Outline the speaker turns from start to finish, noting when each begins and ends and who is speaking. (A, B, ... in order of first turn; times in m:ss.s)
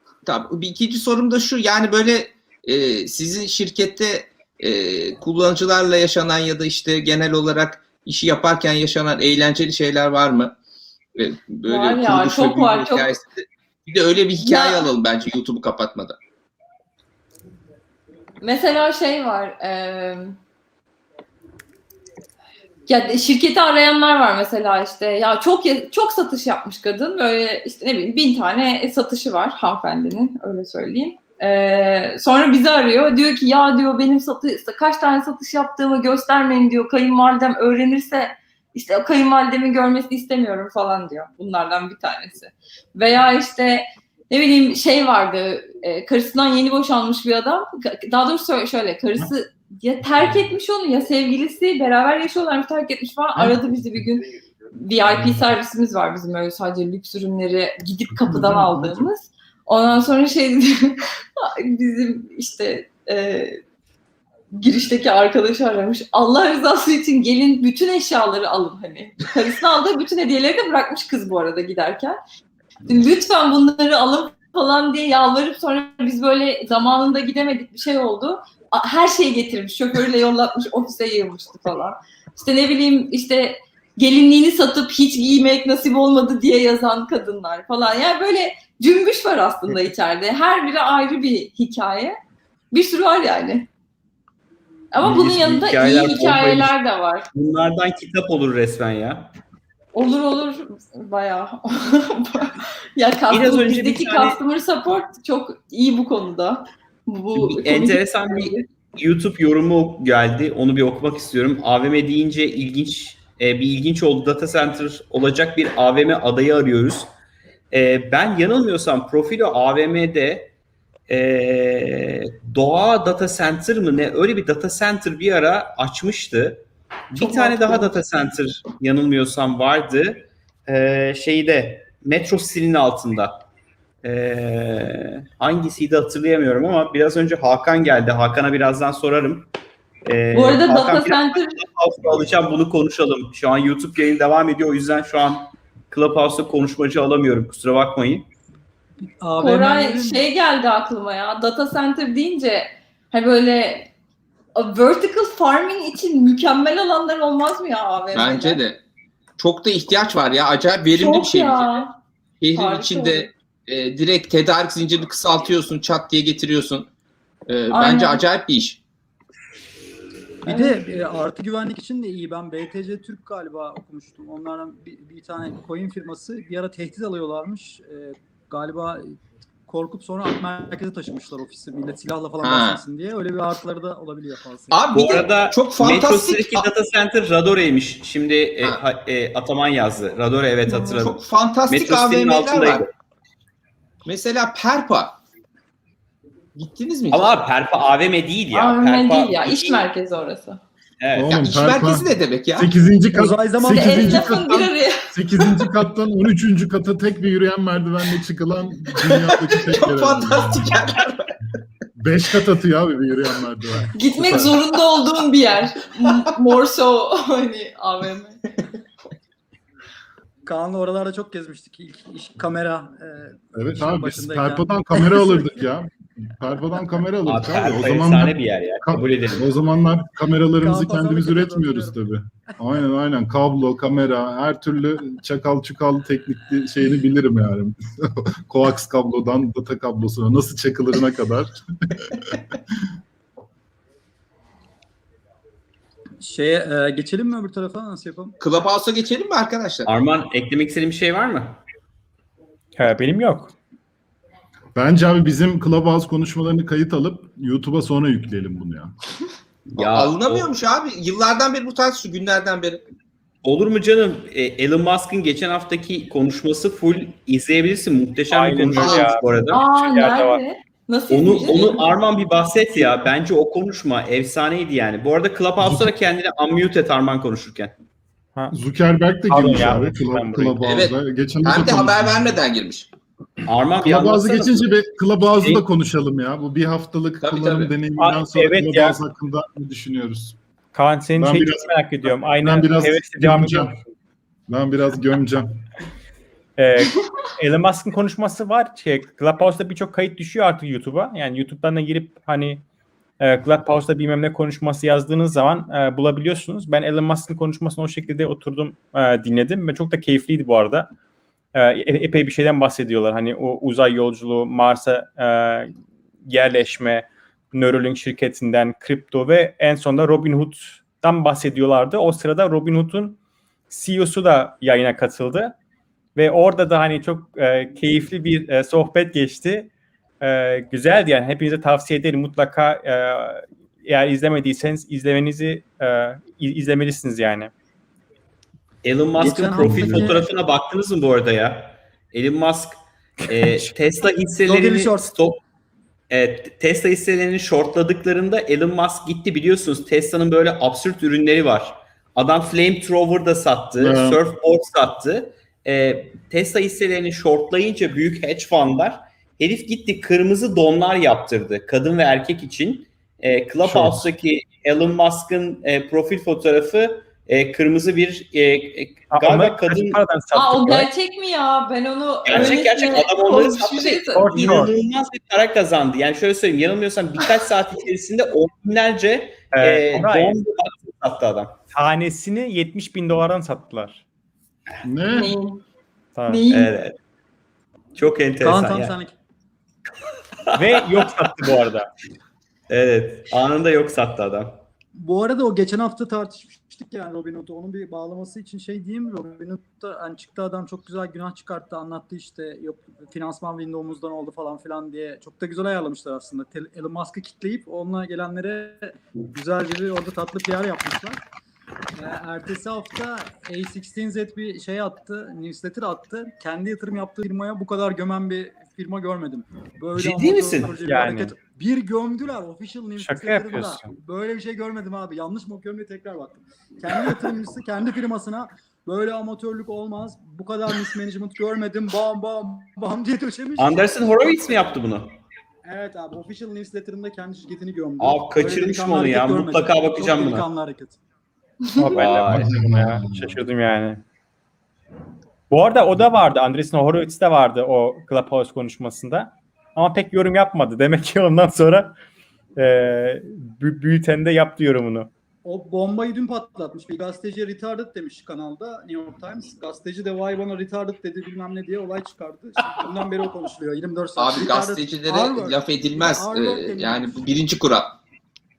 0:00.2-0:10.5 A
0:11.2-0:16.2 A
0:11.6-0:13.1 B
0:14.4-0:14.9 B
0:18.4-0:20.4 B
0:22.9-1:03.6 B
0:58.1-0:59.1 C
1:04.5-1:12.2 B
1:12.9-1:32.2 B
1:32.7-1:33.7 B
1:34.9-1:37.3 B
1:35.0-1:36.8 D
1:37.3-1:39.3 D
1:39.9-1:48.6 B
1:43.3-1:44.4 D
1:47.3-1:57.1 D
1:57.7-2:00.5 D
2:01.1-2:13.4 D
2:07.2-2:07.9 B
2:14.0-2:19.5 D
2:20.0-2:28.3 D
2:20.3-2:21.6 B
2:29.2-2:30.2 E
2:29.4-2:33.9 B
2:34.6-2:38.6 B
2:38.1-2:38.8 A
2:39.4-2:41.8 A
2:40.9-2:42.0 B
2:42.4-2:46.9 A
2:42.5-2:43.3 B
2:47.5-2:48.8 A
2:47.7-2:48.2 B
2:50.4-3:04.8 E
2:50.5-2:50.8 B
3:02.4-3:02.8 A
3:04.7-3:06.7 A
3:04.9-3:12.9 D
3:10.7-3:12.8 A
3:14.0-3:15.2 A
3:16.6-3:17.4 A
3:17.1-3:19.9 D
3:18.5-3:20.6 B
3:21.0-3:21.4 D
3:21.1-3:22.0 C
3:21.3-3:22.7 A
3:22.6-3:30.9 C
3:23.1-3:24.3 E
3:23.7-3:25.1 B
3:29.0-3:31.3 A
3:31.9-3:34.6 C
3:33.9-3:38.4 B
3:40.4-3:45.4 E
3:43.5-4:02.8 C
3:47.2-3:49.5 D
3:50.6-3:52.0 E
4:06.2-4:08.4 E
4:08.4-4:09.9 A
4:09.8-4:11.6 D
4:12.8-4:13.5 F
4:14.7-4:18.9 C
4:19.7-4:20.5 D
4:19.8-4:22.8 A
4:23.4-4:29.6 D
4:28.3-4:30.4 F
4:28.8-4:29.1 A
4:29.5-4:32.0 B
4:31.1-4:37.7 D
4:35.6-4:35.9 C
4:38.5-4:42.4 C
4:39.3-4:40.6 F
4:40.6-4:42.9 A
4:43.5-4:44.6 D
4:43.8-4:50.4 C
4:47.2-4:47.7 A
4:48.0-4:49.0 F
4:50.7-4:53.9 F
4:51.2-4:53.8 C
4:54.5-4:55.6 C
4:56.6-5:02.6 F
5:03.2-5:10.9 F
5:11.5-5:15.7 F
5:16.2-5:23.2 F
5:23.7-5:25.5 F
5:26.2-5:37.5 F
5:38.8-5:45.4 D
5:39.2-5:40.2 E
5:43.3-5:43.7 F
5:44.4-5:45.2 E
5:46.1-6:10.0 D
5:53.8-5:54.2 C
6:03.6-6:04.1 C
6:09.1-6:10.9 F
6:10.3-6:14.4 B
6:12.2-6:21.6 D
6:14.1-6:14.7 F
6:19.5-6:20.4 F
6:21.7-6:24.0 F
6:24.8-6:25.4 C
6:25.1-6:25.6 B
6:26.1-6:26.4 F
6:26.3-6:26.7 B
6:26.5-6:27.0 D
6:28.0-6:29.0 D
6:28.4-6:29.1 E
6:30.5-6:31.5 D
6:30.6-6:31.9 F
6:32.7-6:34.6 D
6:35.0-6:51.2 E
6:51.9-7:13.8 E
7:00.0-7:00.8 D
7:00.8-7:01.3 F
7:03.0-7:03.9 F
7:13.6-7:15.2 D
7:15.6-7:21.0 E
7:18.0-7:20.4 D
7:21.8-7:24.0 F
7:21.9-7:22.5 D
7:22.2-7:23.4 C
7:25.5-7:31.9 F
7:32.6-7:35.1 F
7:35.4-7:47.2 E
7:44.2-7:48.0 A